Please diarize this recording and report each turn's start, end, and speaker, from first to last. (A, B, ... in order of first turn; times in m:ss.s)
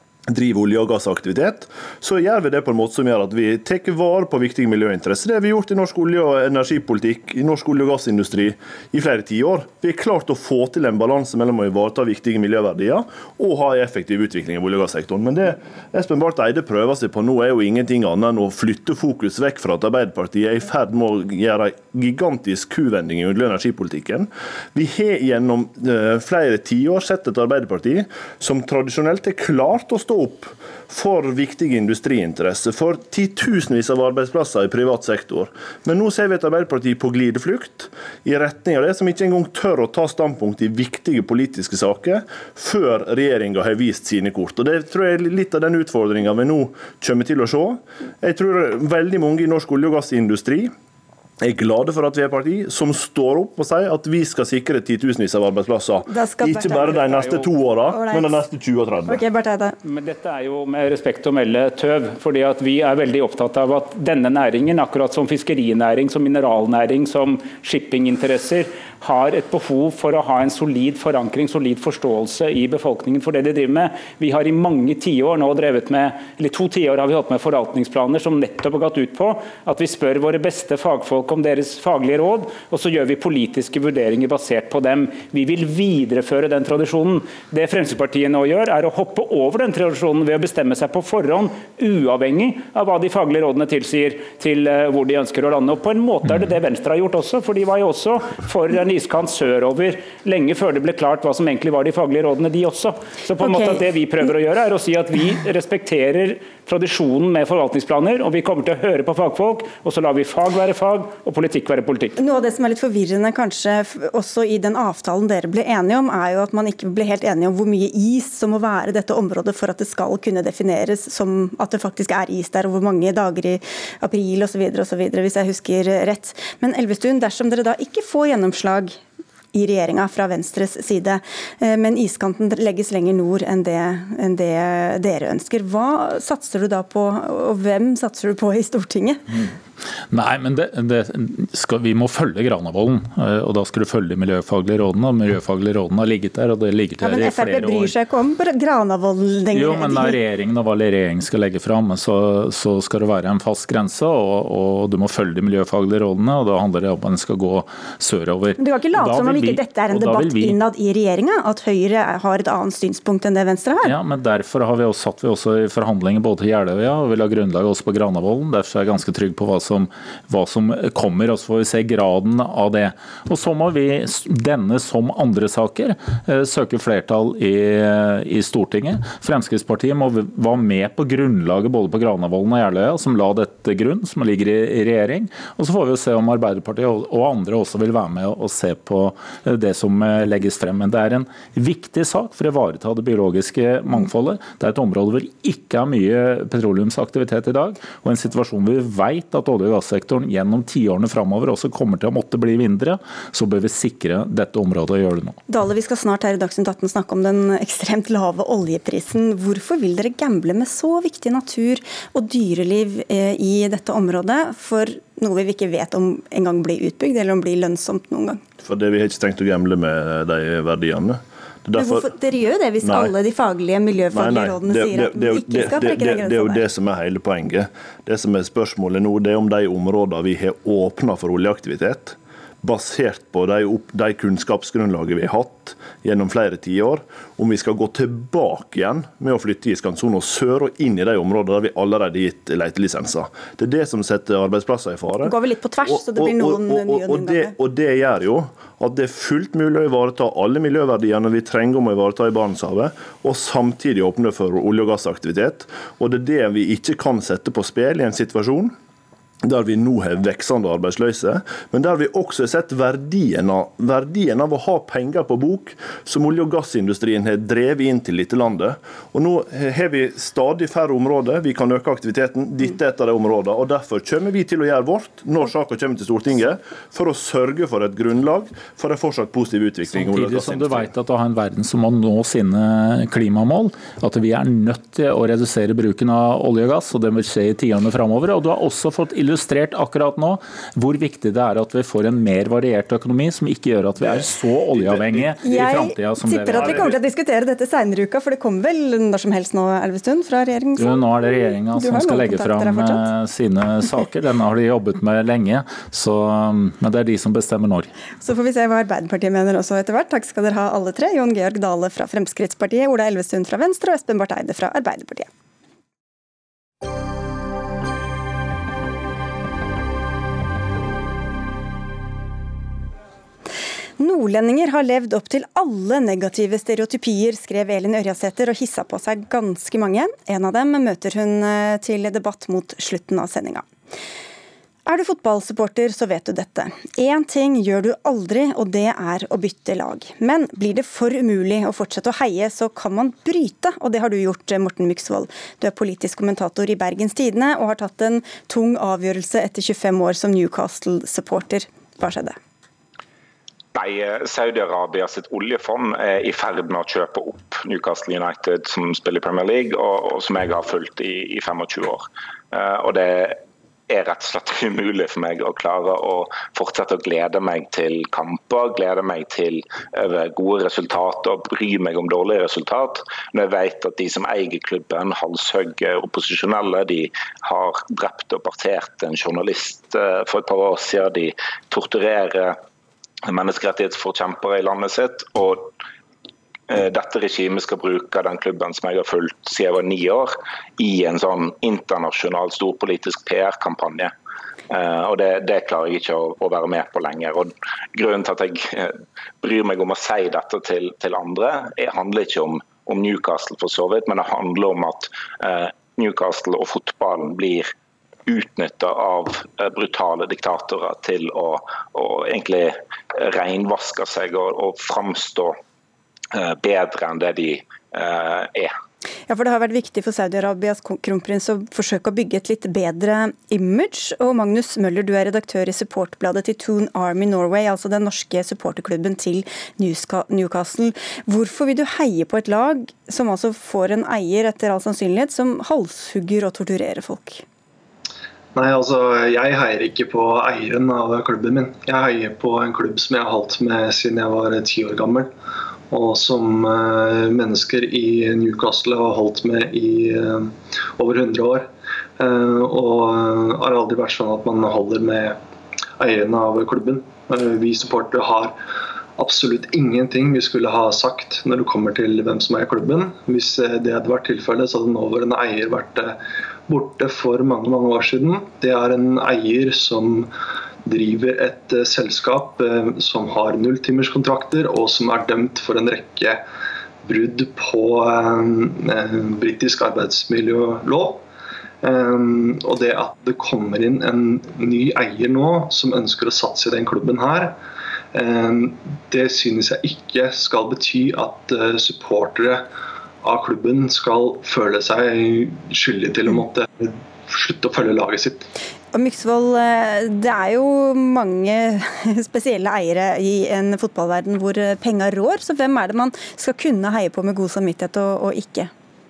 0:00.3-0:50.7 A
0:51.4-0:59.2 A
0:56.1-0:57.4 B
0:57.1-0:57.4 C
0:57.9-0:58.4 B
0:59.1-0:59.8 B
0:59.8-1:52.2 C
1:43.4-1:44.3 B
1:52.2-2:09.0 B
2:09.5-2:19.2 B
2:20.1-2:27.9 D
2:27.0-2:30.2 B
2:29.5-2:40.6 D
2:38.6-2:43.9 B
2:43.8-3:25.4 D
3:25.5-3:38.4 B
3:38.6-3:42.1 A
3:41.8-3:46.6 B
3:42.8-3:43.1 A
3:44.1-4:18.7 A
4:05.2-4:07.5 B
4:19.4-4:40.9 A
4:39.9-4:56.9 D
4:54.7-4:55.2 A
4:55.4-5:03.1 B
4:56.5-4:56.9 A
5:00.8-5:07.9 D
5:08.2-5:15.3 B
5:24.0-5:33.7 B
5:34.9-5:52.4 B
5:53.7-6:22.6 E
6:23.2-6:25.7 E
6:26.7-6:34.1 E
6:34.7-6:47.7 E
6:48.3-6:55.6 E
6:56.3-6:58.7 E
6:59.3-7:17.4 B
7:18.5-7:25.3 F
7:25.9-7:35.4 F
7:36.0-7:38.6 F
7:39.2-7:50.3 F
7:50.8-7:56.4 F
7:57.0-8:01.2 F
8:01.8-8:07.6 F
8:08.1-8:12.7 F
8:13.2-8:18.5 F
8:18.9-8:28.7 B